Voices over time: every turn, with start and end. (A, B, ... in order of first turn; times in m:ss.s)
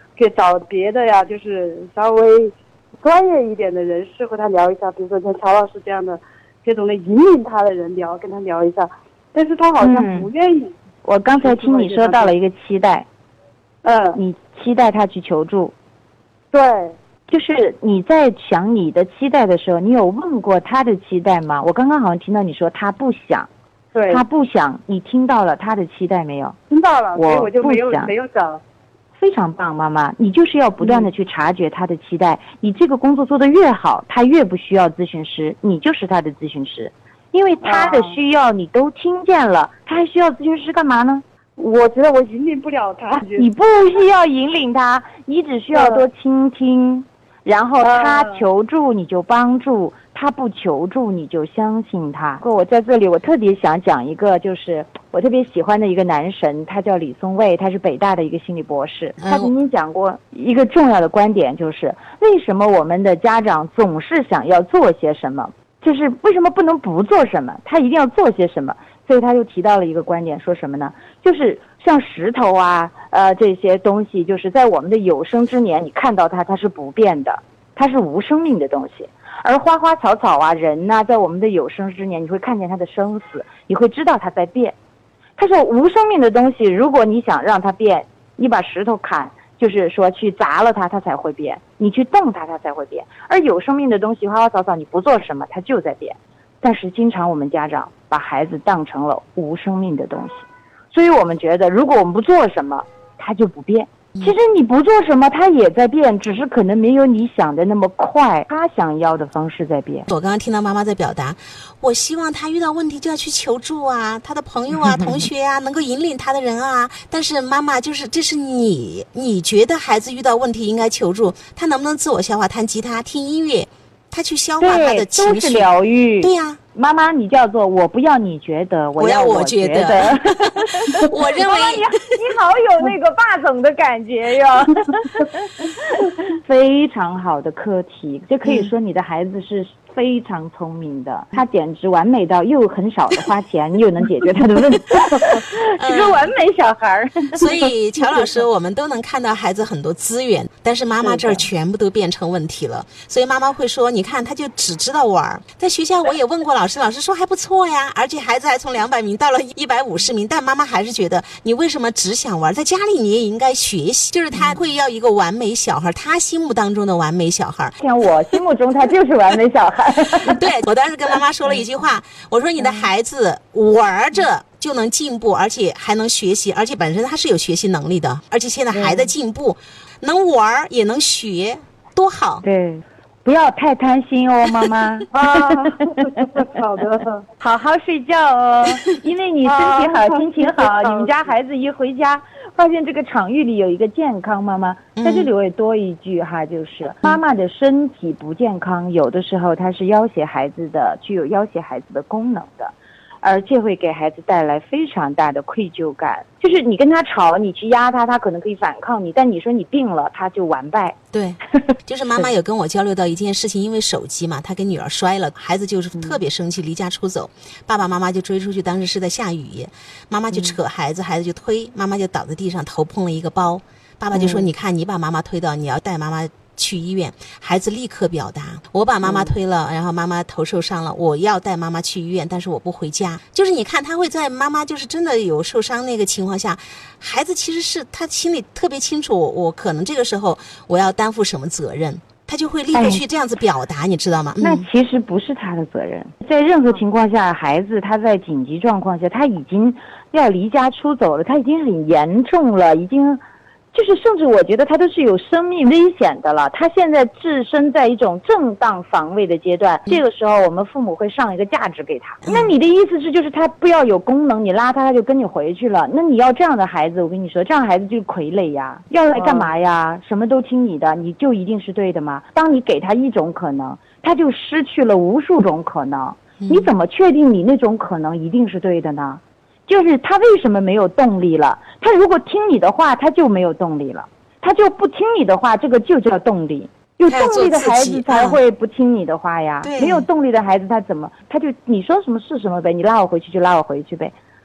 0:00.2-0:10.7 A
0:09.8-0:10.3 B
0:11.0-0:13.1 B
0:11.4-0:12.3 A
0:13.8-0:14.2 A
0:14.2-0:15.7 B
0:16.5-0:17.0 A
0:17.3-0:23.5 B
0:23.9-0:24.2 A
0:24.1-0:26.6 B
0:26.7-0:28.6 A
0:27.2-0:28.1 B
0:29.2-0:41.2 B
0:30.8-0:31.1 A
0:37.6-0:38.2 A
0:41.6-0:43.5 A
0:43.4-1:24.8 B
0:45.7-0:46.0 A
0:47.8-0:48.4 A
0:59.2-0:59.5 C
1:25.4-1:50.1 B
1:50.1-2:05.7 C
1:54.9-1:55.2 B
2:04.6-2:28.3 B
2:06.2-2:06.6 C
2:09.0-2:11.9 C
2:18.4-2:18.7 C
2:25.8-2:26.3 C
2:27.4-2:47.8 C
2:31.0-2:31.5 B
2:44.4-2:44.6 B
2:47.8-2:50.4 B
2:50.3-3:02.4 C
2:52.6-2:52.9 B
2:58.7-2:59.1 B
3:02.4-3:05.5 B
3:05.1-3:07.2 A
3:07.4-3:31.0 B
3:09.4-3:11.3 A
3:15.0-3:15.3 C
3:31.1-4:04.7 C
3:40.3-3:40.6 B
3:44.1-3:44.5 B
3:49.0-3:49.4 B
4:02.7-4:03.0 B
4:04.4-4:13.2 B
4:13.7-4:54.2 B
4:22.2-4:22.5 C
4:36.4-4:36.7 C
4:47.1-4:48.4 C
4:49.6-4:50.1 C